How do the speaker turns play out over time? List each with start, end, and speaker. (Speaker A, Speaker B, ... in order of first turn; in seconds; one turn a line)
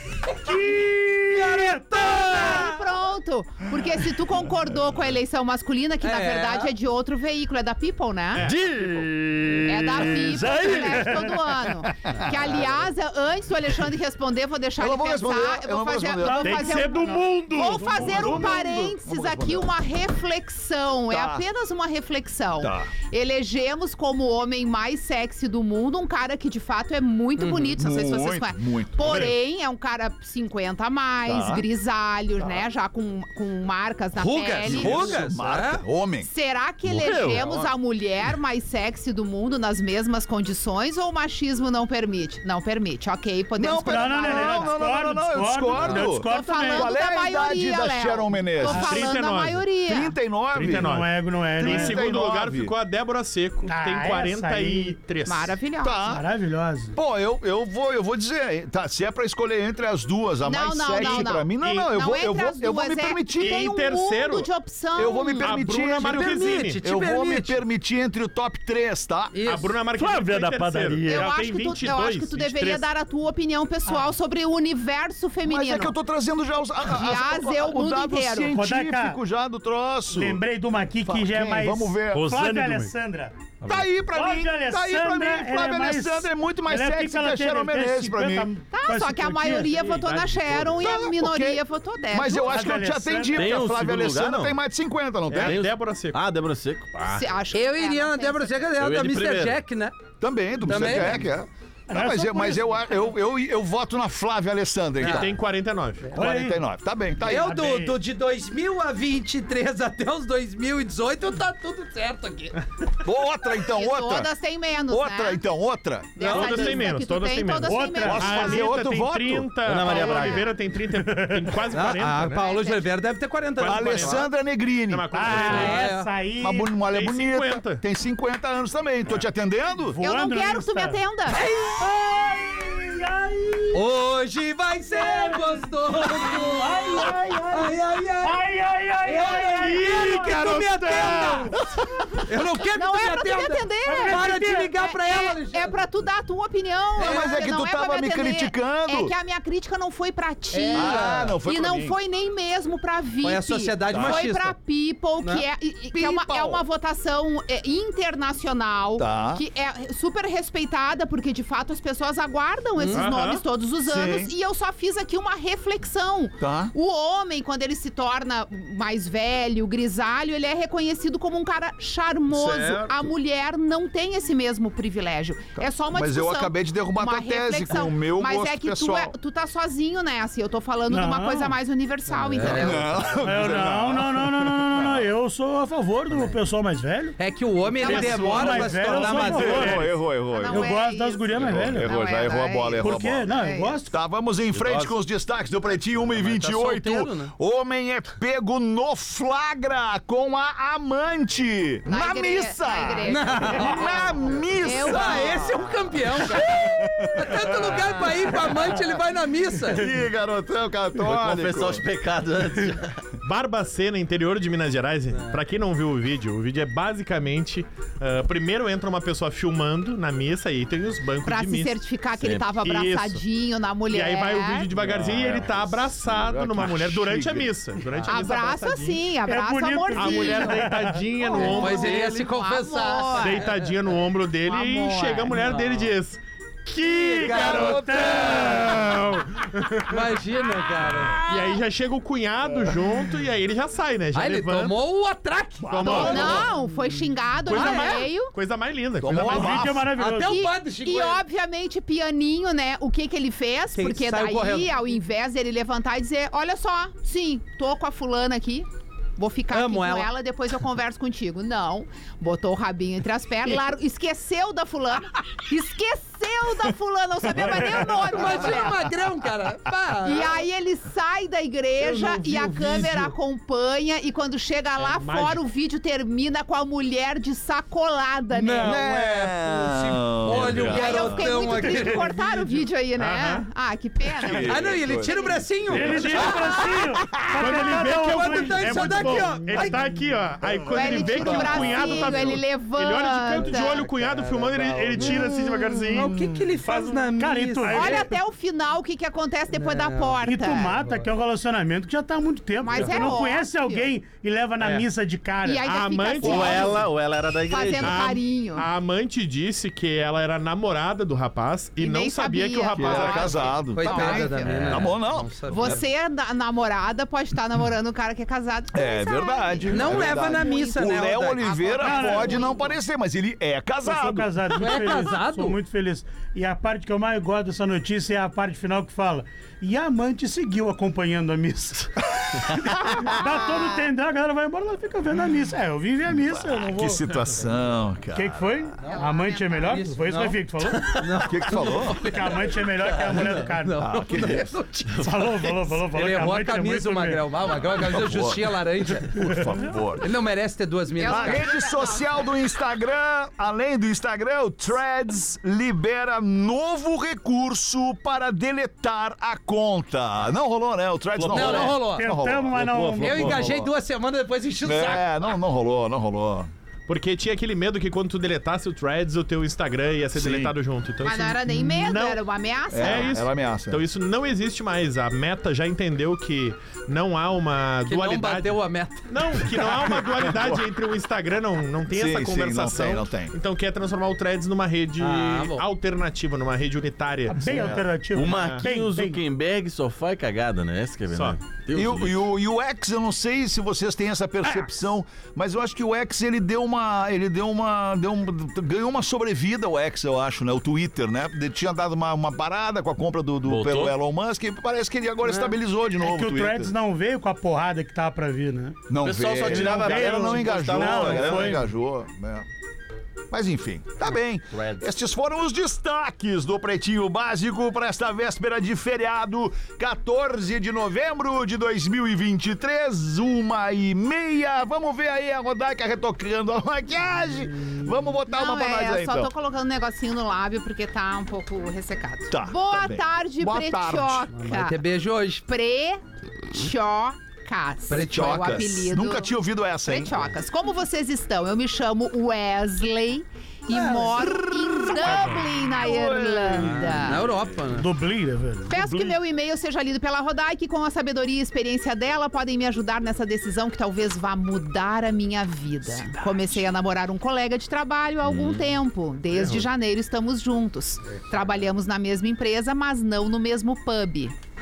Speaker A: 0.3-2.6
Speaker B: 1.2-2.8
Speaker C: 2.0-8.5
Speaker B: 6.0-6.7
Speaker D: 8.3-9.6
Speaker C: 9.6-35.2
Speaker E: 14.8-16.7
Speaker A: 16.2-18.3
Speaker D: 16.4-18.5
Speaker E: 17.9-19.7
Speaker E: 21.1-21.4
Speaker E: 22.6-22.9
Speaker B: 27.4-27.8
Speaker E: 27.8-29.3
Speaker D: 29.0-29.3
Speaker E: 31.2-31.6
Speaker B: 34.1-35.8
Speaker E: 34.6-36.3
Speaker C: 36.2-44.8
Speaker B: 37.0-37.7
Speaker F: 37.0-37.4
Speaker E: 43.6-49.1
Speaker A: 43.8-46.9
Speaker C: 46.1-50.1
Speaker D: 48.7-49.6
Speaker E: 49.9-50.9
Speaker D: 50.5-55.5
Speaker A: 50.6-52.0
Speaker E: 51.6-52.7
Speaker A: 53.6-55.0
Speaker C: 55.2-56.0
Speaker E: 55.8-56.2
Speaker A: 56.0-56.9
Speaker E: 56.9-63.6
Speaker C: 60.4-65.5
Speaker D: 61.0-61.8
Speaker D: 63.4-64.5
Speaker E: 65.0-69.3
Speaker D: 65.4-66.8
Speaker B: 66.0-67.6
Speaker B: 69.3-69.7
Speaker D: 69.5-72.9
Speaker C: 71.1-75.9
Speaker E: 75.4-80.4
Speaker C: 76.8-78.6
Speaker A: 78.5-79.2
Speaker A: 80.1-83.5
Speaker E: 81.0-82.3
Speaker E: 83.6-88.5
Speaker A: 84.1-89.9
Speaker C: 88.7-92.7
Speaker D: 90.0-90.3
Speaker E: 90.8-95.6
Speaker A: 92.4-93.5
Speaker F: 93.3-94.6
Speaker D: 95.3-96.2
Speaker F: 95.3-97.2
Speaker C: 97.0-98.6
Speaker B: 97.5-99.9
Speaker F: 98.8-99.6
Speaker E: 100.2-105.3
Speaker B: 100.6-101.2
Speaker A: 101.9-102.8
Speaker B: 105.0-105.3
Speaker D: 105.0-106.1
Speaker A: 106.1-106.6
Speaker E: 106.1-107.5
Speaker B: 107.2-112.5
Speaker A: 107.2-107.9
Speaker E: 113.0-114.3
Speaker C: 113.7-115.4
Speaker E: 114.9-116.5
Speaker C: 116.1-118.7
Speaker D: 116.2-122.5
Speaker B: 116.2-116.8
Speaker A: 117.6-118.3
Speaker E: 118.0-119.5
Speaker F: 119.6-120.5
Speaker A: 120.1-120.3
Speaker A: 120.9-121.5
Speaker B: 121.7-124.2
Speaker C: 122.3-122.9
Speaker D: 123.6-124.3
Speaker E: 123.6-125.5
Speaker D: 124.9-125.9
Speaker A: 125.1-126.7
Speaker B: 125.2-126.1
Speaker E: 126.4-130.0
Speaker D: 126.9-127.8
Speaker A: 129.8-131.0
Speaker C: 130.0-131.4
Speaker B: 131.3-131.8
Speaker A: 131.8-133.8
Speaker B: 133.7-138.4
Speaker A: 134.9-141.5
Speaker B: 139.0-141.5
Speaker D: 139.4-141.5
Speaker B: 142.2-145.8
Speaker C: 142.7-182.9
Speaker A: 143.8-144.7
Speaker E: 147.0-149.1
Speaker B: 147.0-147.3
Speaker B: 150.5-151.3
Speaker E: 150.7-152.0
Speaker B: 153.2-154.6
Speaker E: 153.9-154.3
Speaker B: 155.2-155.4
Speaker E: 155.9-156.6
Speaker E: 159.0-159.4
Speaker B: 162.8-163.1
Speaker D: 162.9-163.4
Speaker E: 163.8-164.3
Speaker E: 166.4-166.7
Speaker E: 172.3-173.1
Speaker E: 175.6-179.1
Speaker A: 180.9-181.6
Speaker B: 182.1-182.9
Speaker E: 182.4-185.0
Speaker A: 183.2-187.2
Speaker B: 187.2-189.8
Speaker C: 187.8-188.3
Speaker A: 187.8-191.9
Speaker D: 187.9-188.6
Speaker E: 189.1-190.8
Speaker C: 190.3-193.8
Speaker E: 191.3-193.3
Speaker A: 192.8-193.9
Speaker E: 193.9-208.8
Speaker F: 194.5-194.9
Speaker B: 196.1-197.3
Speaker C: 201.9-205.7
Speaker B: 203.1-204.0
Speaker B: 204.7-209.9
Speaker E: 209.7-211.8
Speaker F: 211.0-213.0
Speaker D: 213.2-221.8
Speaker C: 221.2-224.7
Speaker F: 222.2-222.5
Speaker D: 222.6-223.2
Speaker D: 223.9-229.0
Speaker E: 224.8-227.5
Speaker F: 225.0-225.4
Speaker C: 228.1-230.7
Speaker A: 229.2-231.1
Speaker D: 229.9-232.2
Speaker C: 231.2-233.5
Speaker B: 231.4-233.5
Speaker D: 233.2-240.1
Speaker C: 234.5-235.4
Speaker A: 236.8-238.9
Speaker B: 237.2-238.7
Speaker E: 237.2-238.6
Speaker B: 239.9-241.2
Speaker D: 241.2-244.7
Speaker B: 244.1-246.6
Speaker E: 245.6-246.5
Speaker D: 245.7-246.5
Speaker C: 245.9-248.3
Speaker B: 247.5-248.0
Speaker D: 247.5-249.7
Speaker E: 249.0-249.9
Speaker A: 249.2-250.5
Speaker B: 249.9-251.2
Speaker C: 250.2-268.9
Speaker B: 253.7-254.7
Speaker B: 259.5-260.1
Speaker E: 267.4-267.7
Speaker B: 267.8-270.4
Speaker C: 270.0-278.8
Speaker B: 271.8-273.1
Speaker D: 274.8-275.4
Speaker B: 278.3-282.2
Speaker E: 278.6-281.3
Speaker C: 280.5-285.4
Speaker D: 282.4-283.4
Speaker E: 284.1-286.3
Speaker B: 284.4-286.6
Speaker A: 285.7-289.9
Speaker D: 287.4-296.1
Speaker B: 287.4-289.8
Speaker C: 290.7-293.9
Speaker B: 291.1-292.2
Speaker B: 293.5-295.4
Speaker B: 295.9-298.1
Speaker D: 296.6-297.1
Speaker A: 297.2-298.1
Speaker C: 297.7-300.8
Speaker B: 299.5-300.2
Speaker A: 300.2-305.6
Speaker B: 300.8-301.1
Speaker C: 302.6-303.9
Speaker B: 302.8-303.0
Speaker C: 305.4-306.9
Speaker D: 305.6-306.9
Speaker F: 306.2-308.1
Speaker C: 307.5-308.6
Speaker D: 307.8-313.6
Speaker C: 311.8-314.8
Speaker E: 312.8-315.8
Speaker B: 313.7-315.8
Speaker F: 314.5-314.9
Speaker C: 315.5-322.8
Speaker E: 318.7-324.6
Speaker B: 319.7-321.6
Speaker A: 321.8-322.5
Speaker A: 323.8-337.1
Speaker B: 324.6-325.6
Speaker E: 336.4-338.7
Speaker A: 338.1-341.1
Speaker B: 338.8-349.3
Speaker C: 338.9-339.8
Speaker E: 341.2-342.0
Speaker A: 342.0-343.8
Speaker E: 343.8-344.5
Speaker A: 345.0-347.3
Speaker E: 347.8-348.6
Speaker E: 349.1-350.1
Speaker B: 350.0-351.5
Speaker C: 350.9-352.3
Speaker E: 351.0-363.7
Speaker F: 361.1-361.9
Speaker B: 361.3-362.1
Speaker A: 361.9-363.5
Speaker F: 362.5-363.6
Speaker B: 363.0-365.1
Speaker E: 364.6-366.5
Speaker D: 366.9-372.2
Speaker E: 370.1-370.5
Speaker C: 371.0-373.2
Speaker E: 372.7-373.8
Speaker D: 372.7-378.6
Speaker B: 377.9-379.1
Speaker D: 379.1-388.7
Speaker E: 379.9-380.6
Speaker E: 381.9-383.3
Speaker B: 385.0-385.6
Speaker A: 387.3-389.2
Speaker F: 387.6-392.2
Speaker D: 391.1-391.4
Speaker E: 391.7-406.7
Speaker F: 403.4-403.9
Speaker B: 405.3-405.5
Speaker A: 406.0-411.6
Speaker E: 408.9-412.4
Speaker F: 409.0-411.6
Speaker E: 413.3-429.3
Speaker F: 414.5-414.9
Speaker C: 428.3-434.8
Speaker E: 432.3-434.3
Speaker B: 434.3-435.4
Speaker C: 435.4-439.3
Speaker B: 437.9-438.7
Speaker E: 437.9-440.2
Speaker C: 439.8-447.2
Speaker E: 443.7-447.2
Speaker B: 446.6-447.9
Speaker A: 447.7-448.9
Speaker C: 448.7-464.3
Speaker E: 455.9-456.6
Speaker F: 458.2-458.8
Speaker D: 459.3-459.6